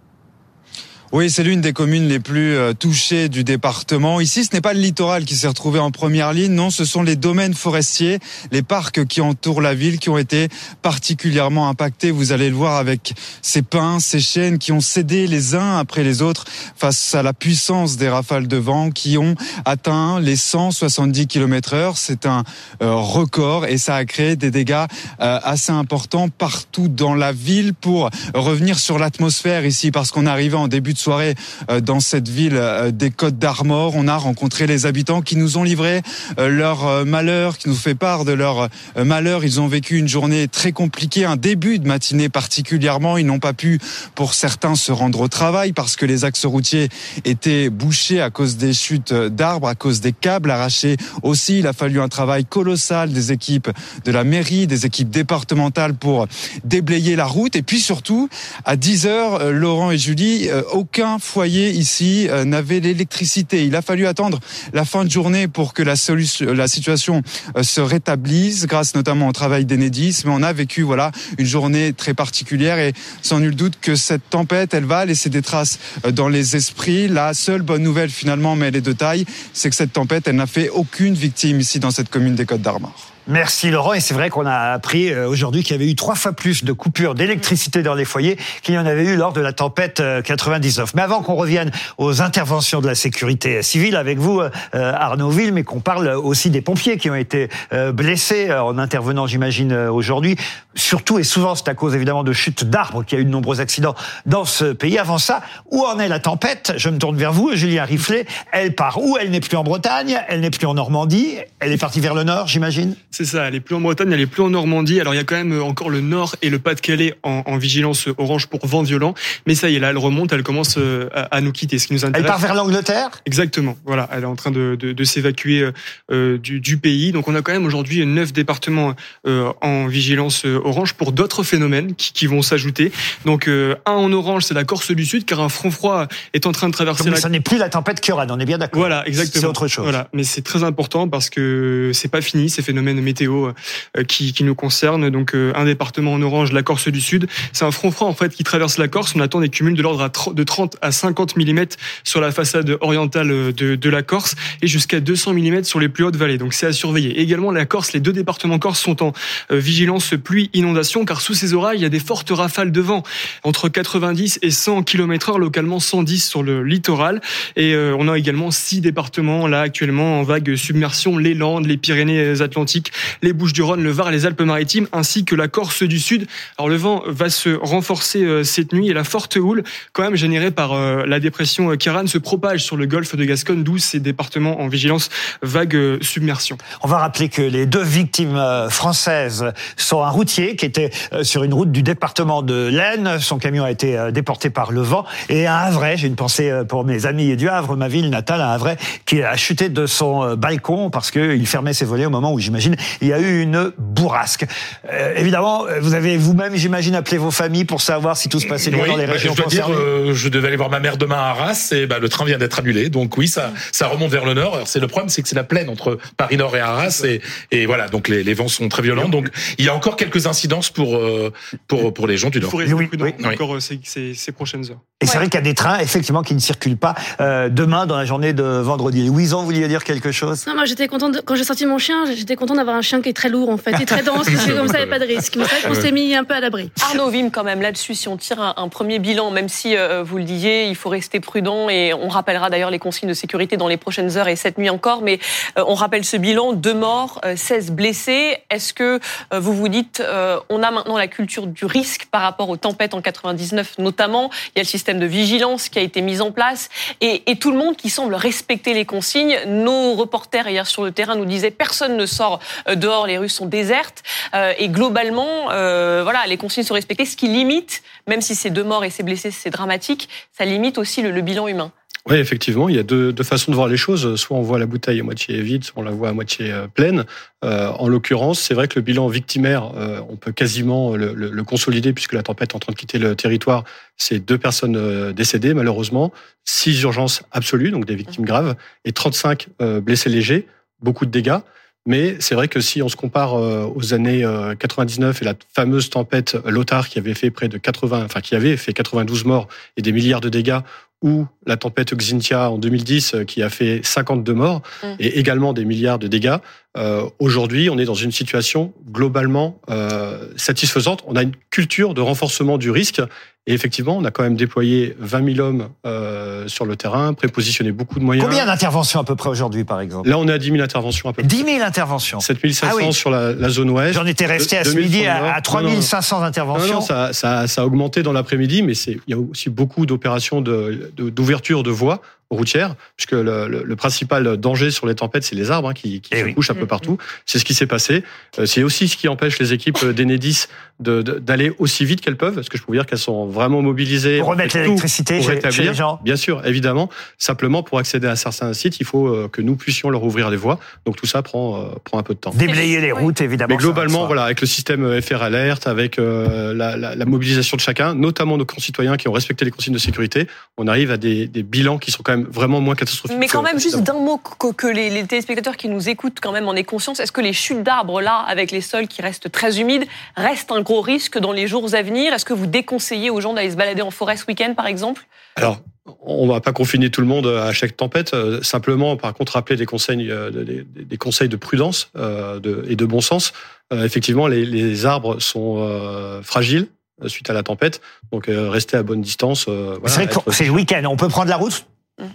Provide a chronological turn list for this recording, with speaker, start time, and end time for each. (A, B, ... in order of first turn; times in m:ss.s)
0:01.1-1:23.0 A
1:23.3-1:53.0 B
1:53.1-2:02.4 C
2:02.1-2:03.2 B
2:03.2-2:17.3 C
2:17.0-2:20.0 B
2:18.7-3:06.6 C
3:06.8-3:29.9 B
3:28.5-3:42.6 D
3:42.4-3:44.9 C
3:42.6-3:43.2 B
3:45.0-3:50.4 B
3:50.5-3:56.7 E
3:54.4-3:55.0 D
3:55.6-3:55.9 D
3:56.8-4:31.7 F
4:32.1-5:18.5 G
5:18.2-5:20.1 B
5:20.0-5:21.4 G
5:21.2-5:22.9 B
5:22.2-5:25.9 G
5:23.9-5:26.9 B
5:26.5-5:52.4 G
5:36.1-5:36.4 B
5:44.2-5:46.0 B
5:52.3-5:54.2 B
5:53.5-6:03.8 G
6:03.1-6:15.0 F
6:15.4-6:30.6 G
6:29.8-6:31.6 B